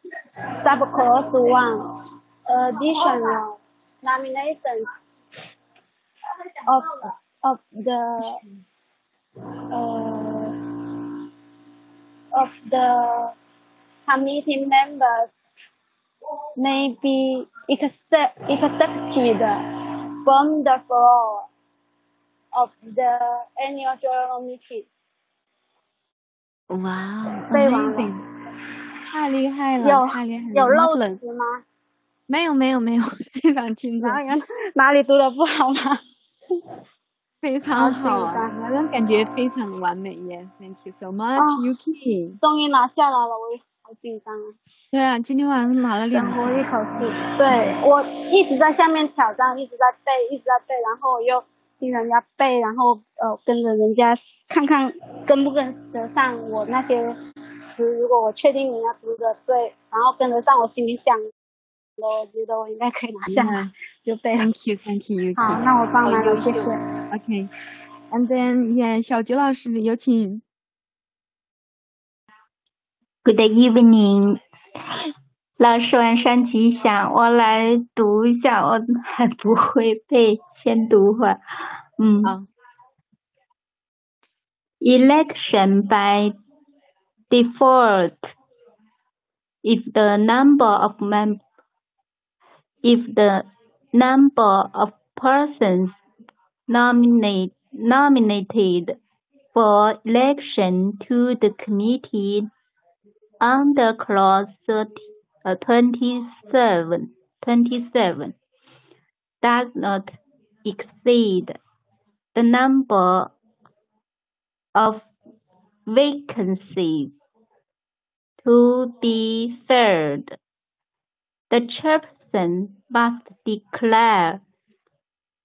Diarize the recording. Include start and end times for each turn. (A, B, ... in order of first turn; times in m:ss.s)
0:00.6-0:04.9 A
0:06.6-0:08.4 A
0:09.7-0:10.6 A
0:12.3-0:13.3 A
0:14.1-0:15.3 A
0:16.6-0:19.6 A
0:20.2-0:21.4 A
0:22.5-0:24.9 A
0:26.7-0:28.2 B
0:27.5-0:28.1 A
0:29.0-0:31.3 B
0:29.8-0:31.6 A
0:32.3-0:34.2 B
0:34.0-0:36.0 A
0:37.4-0:42.4 B
0:37.8-0:38.5 A
0:41.4-0:41.6 A
0:42.4-0:44.5 A
0:44.9-0:46.6 B
0:46.1-0:57.2 A
0:57.8-1:01.2 A
1:02.0-1:04.5 A
1:03.2-1:03.7 B
1:04.4-1:07.5 B
1:05.4-1:06.8 A
1:08.1-1:10.4 B
1:13.2-1:14.4 C
1:15.6-1:21.4 C
1:22.0-1:22.4 C
1:22.2-1:22.5 B
1:24.8-1:26.4 C
1:27.3-1:28.3 C
1:29.6-1:31.4 C
1:32.8-1:36.0 C
1:36.7-1:39.0 C
1:39.5-1:42.5 C
1:43.4-1:48.4 C
1:49.4-1:51.6 C
1:52.3-1:53.3 C
1:54.7-1:55.1 C
1:55.9-1:57.1 C
1:58.4-2:00.4 C
2:01.5-2:04.4 C